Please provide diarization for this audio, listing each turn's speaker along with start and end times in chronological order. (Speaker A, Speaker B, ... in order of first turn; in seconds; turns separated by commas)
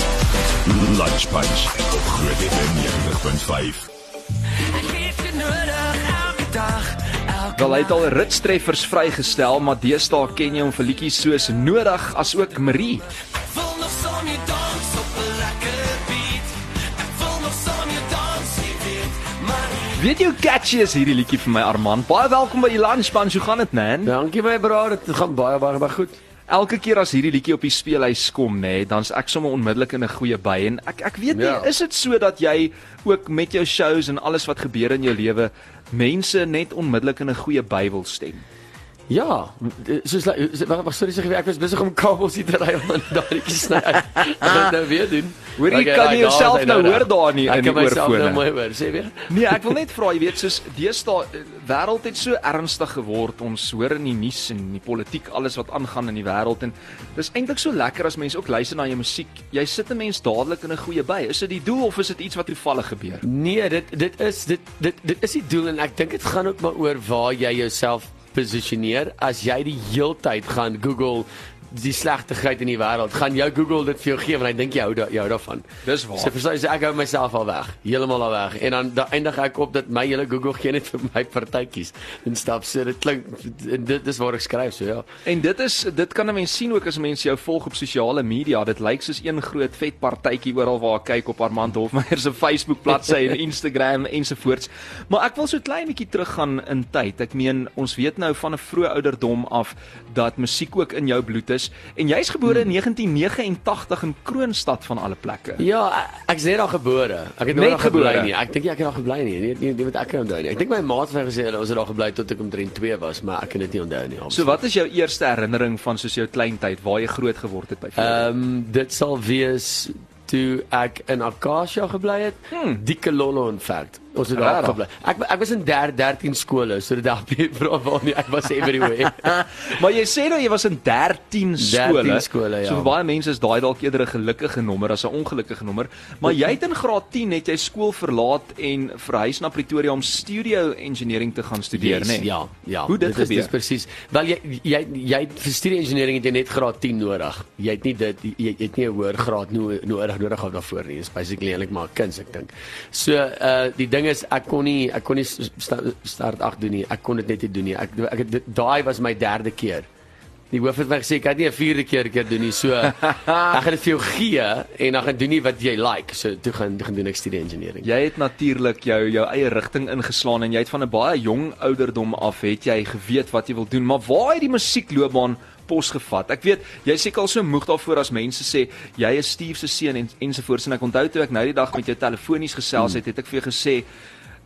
Speaker A: 0.7-3.9, Speaker B: 4.6-7.9, Speaker C: 7.6-13.1, Speaker B: 13.4-20.0, Speaker C: 19.9-24.1, Speaker B: 24.0-26.2, Speaker C: 26.5-38.5, Speaker B: 31.3-31.7, Speaker B: 39.1-49.6, Speaker C: 44.4-44.7, Speaker C: 45.6-48.5, Speaker C: 49.3-63.2, Speaker B: 63.2-85.1, Speaker C: 75.8-76.3, Speaker C: 85.2-105.6, Speaker B: 105.6-114.6, Speaker C: 107.5-108.3, Speaker C: 114.3-118.3, Speaker B: 118.0-129.3, Speaker C: 122.5-122.8, Speaker C: 124.3-124.8, Speaker C: 129.2-142.3, Speaker B: 131.6-132.9, Speaker B: 141.8-159.9, Speaker C: 142.9-143.5, Speaker B: 160.5-167.9, Speaker C: 163.0-163.6, Speaker C: 167.8-183.9